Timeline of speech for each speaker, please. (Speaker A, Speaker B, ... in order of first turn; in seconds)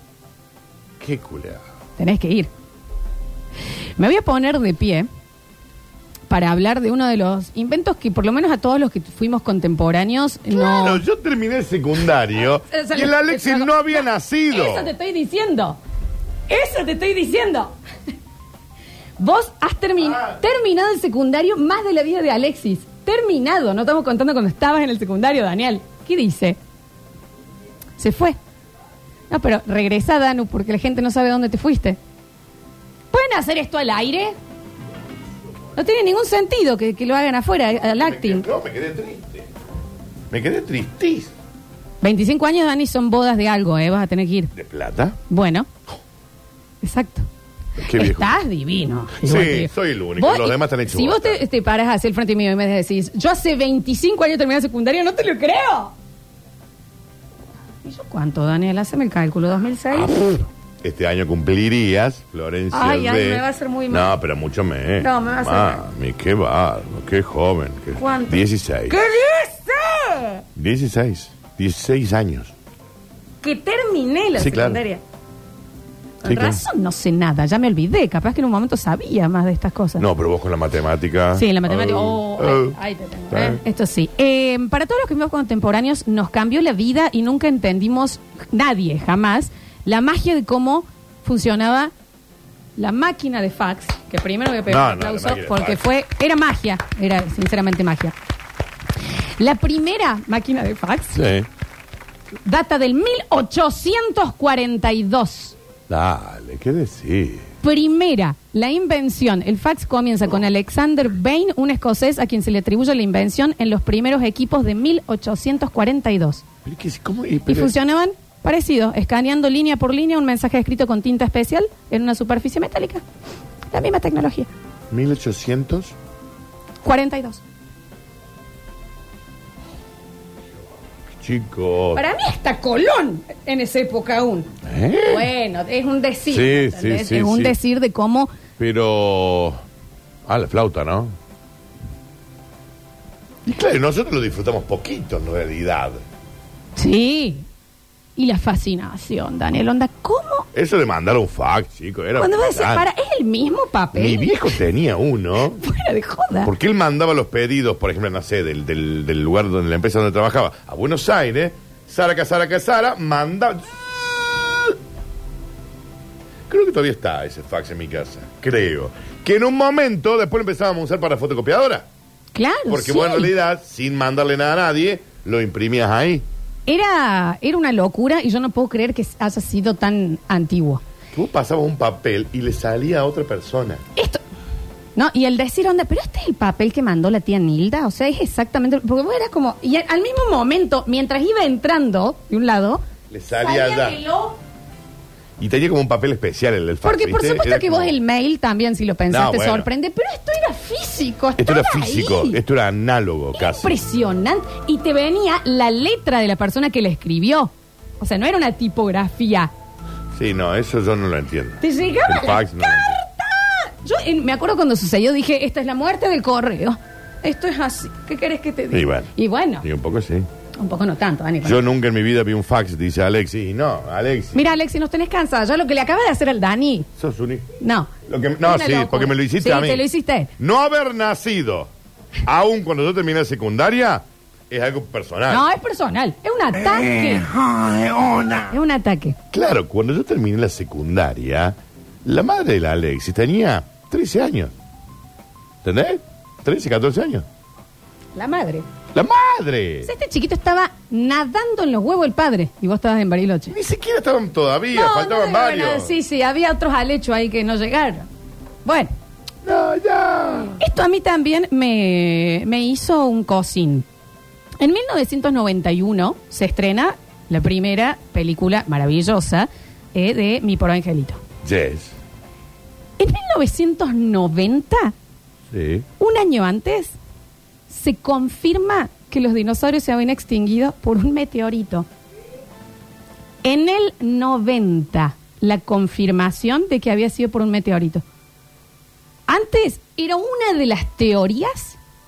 Speaker A: 1.0-1.6, 10.5-14.9, 37.9-39.5, 40.3-41.3, 44.5-45.2, 47.8-48.4, 49.2-51.4, 59.9-60.3, 60.8-69.0, 70.6-72.5, 74.4-74.8, 76.2-76.6, 80.0-82.8, 83.3-83.6, 94.7-95.8, 101.1-101.5, 105.9-107.5, 116.7-117.7, 124.9-125.9, 131.2-132.0, 134.6-135.3, 136.3-137.6, 138.6-139.6, 140.2-141.2, 143.4-146.0, 150.5-152.8, 153.9-155.6, 156.4-164.7, 166.5-171.9, 172.7-176.2, 181.1-183.8, 193.1-194.0, 195.4-198.0, 199.1-199.7, 201.4-203.8, 210.2-213.0, 218.7-219.1, 219.6-220.3, 221.4-224.4, 227.0-227.4, 228.1-229.8, 230.4-231.7, 232.2-235.4, 236.8-238.4, 239.3-244.5, 245.6-247.2, 248.9-249.9, 253.5-255.9, 259.4-260.6, 271.4-271.9, 275.5-275.9
Speaker B: 2.0-2.5, 4.0-5.1, 6.3-11.0, 12.6-15.8, 16.5-17.8, 19.2-26.6, 28.0-28.4, 29.3-32.0, 33.1-34.4, 35.8-38.5, 42.0-44.5, 45.3-45.7, 46.8-47.3, 47.9-55.9, 57.8-60.4, 62.7-64.1, 65.0-65.8, 68.0-70.4, 73.4-75.0, 76.2-80.0, 81.3-91.9, 92.8-98.2, 99.4-101.2, 102.4-105.6, 107.6-116.4, 117.5-123.0, 123.7-124.5, 126.8-127.4, 131.9-134.5, 135.0-138.3, 146.8-147.4, 148.2-150.5, 152.2-154.6, 155.6-156.5, 172.3-173.3, 176.7-180.8, 183.9-184.2, 184.9-194.4, 196.8-202.4, 203.3-209.5, 211.6-219.7, 220.6-221.6, 224.3-226.9, 227.6-230.3, 235.3-237.4, 238.4-239.2, 248.2-248.7, 249.8-253.6, 254.7-258.1, 258.6-258.9, 260.6-263.9, 264.6-271.2, 273.0-274.9, 276.0-276.9, 277.7-281.9, 283.4-288.1, 289.3-291.8